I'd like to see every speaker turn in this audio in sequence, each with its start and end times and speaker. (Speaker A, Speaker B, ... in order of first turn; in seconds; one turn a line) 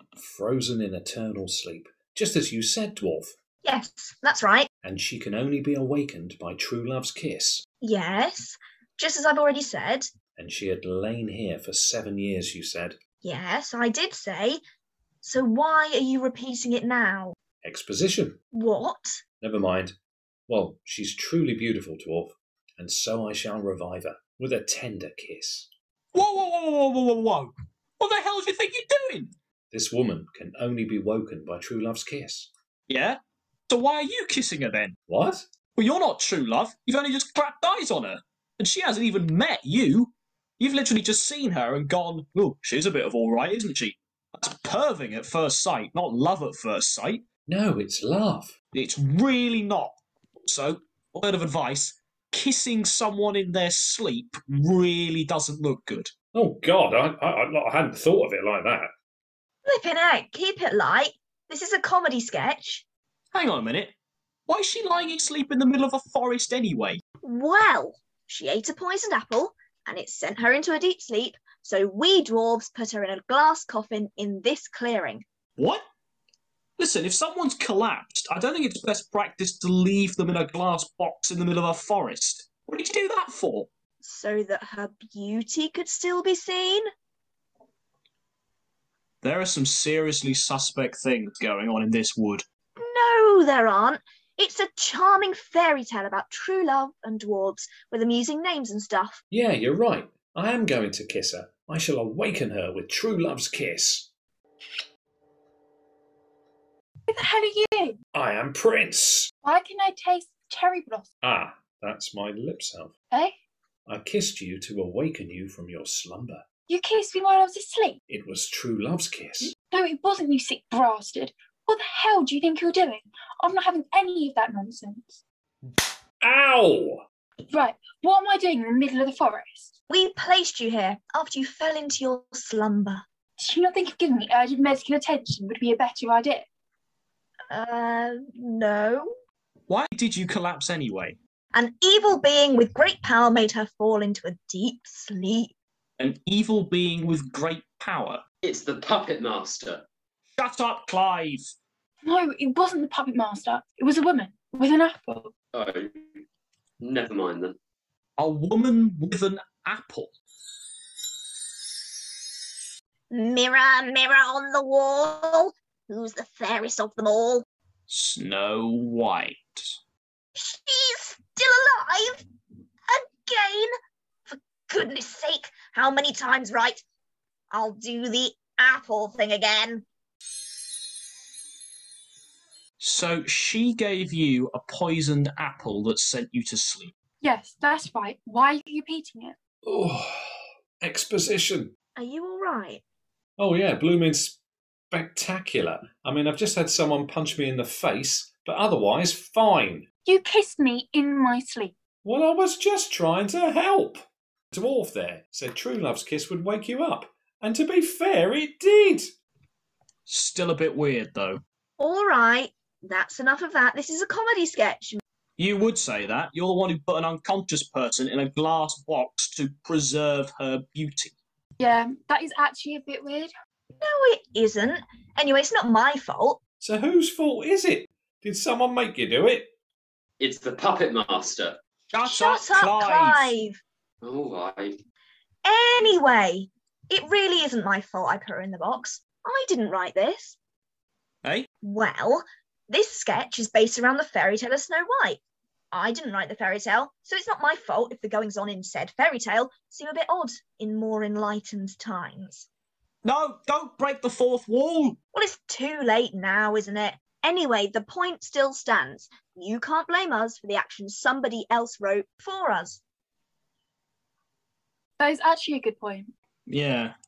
Speaker A: 0.1-3.3
Speaker B: 3.6-4.7
Speaker A: 4.8-7.7
Speaker B: 7.8-10.1
Speaker A: 10.4-13.0
Speaker B: 13.2-14.6
Speaker B: 15.2-17.3
Speaker A: 17.6-18.4
Speaker B: 18.5-19.2
Speaker A: 19.4-19.9
Speaker A: 20.5-25.7
Speaker C: 26.1-29.3
Speaker A: 29.7-32.5
Speaker C: 32.9-34.9
Speaker A: 35.1-35.5
Speaker C: 35.7-47.2
Speaker A: 47.5-48.5
Speaker C: 48.7-56.1
Speaker A: 56.3-58.9
Speaker B: 59.6-62.8
Speaker C: 63.3-63.9
Speaker C: 64.5-67.0
Speaker B: 67.2-75.2
Speaker C: 75.6-75.8
Speaker C: 76.8-83.7
Speaker B: 84.0-86.8
Speaker C: 89.2-92.4
Speaker B: 92.8-99.2
Speaker A: 99.3-104.1
Speaker D: 107.1-108.0
Speaker A: 108.1-109.3
Speaker D: 109.4-111.1
Speaker A: 111.2-112.9
Speaker A: 113.9-116.4
Speaker D: 116.7-118.0
Speaker A: 118.1-119.5
Speaker D: 119.5-125.2
Speaker A: 126.2-127.0
Speaker D: 127.5-129.7
Speaker B: 129.9-133.0
Speaker D: 133.4-136.4
Speaker B: 137.5-139.1
Speaker C: 139.7-141.2
Speaker B: 141.5-145.5
Speaker C: 146.0-148.2
Speaker E: 148.4-149.8
Speaker C: 150.4-151.5
Speaker D: 152.0-155.3
Speaker E: 155.5-155.8
Speaker E: 156.8-157.5
Speaker C: 158.2-160.1
Speaker B: 163.1-167.4
Speaker C: 167.9-169.8
Speaker B: 170.3-172.2
Speaker B: 172.9-173.7
Speaker B: 174.3-176.8
Speaker B: 177.5-179.8
Speaker C: 182.8-186.9
Speaker D: 187.2-189.3
Speaker A: 189.6-190.3
Speaker A: 190.8-191.7
Speaker B: 192.0-192.8
Speaker A: 193.4-194.4
Speaker A: 194.9-199.9
Speaker D: 200.0-201.7
Speaker A: 202.0-209.1
Speaker C: 210.1-211.4
Speaker B: 211.8-215.0
Speaker C: 215.4-221.1
Speaker D: 221.6-223.3
Speaker B: 223.8-226.4
Speaker A: 226.6-229.5
Speaker E: 230.2-231.5
Speaker C: 231.9-233.3
Speaker B: 232.0-233.6
Speaker E: 234.0-234.6
Speaker B: 235.4-240.4
Speaker B: 241.6-245.2
Speaker B: 245.7-252.5
Speaker C: 253.0-255.0
Speaker B: 255.1-262.8
Speaker D: 265.0-266.1
Speaker C: 266.5-266.9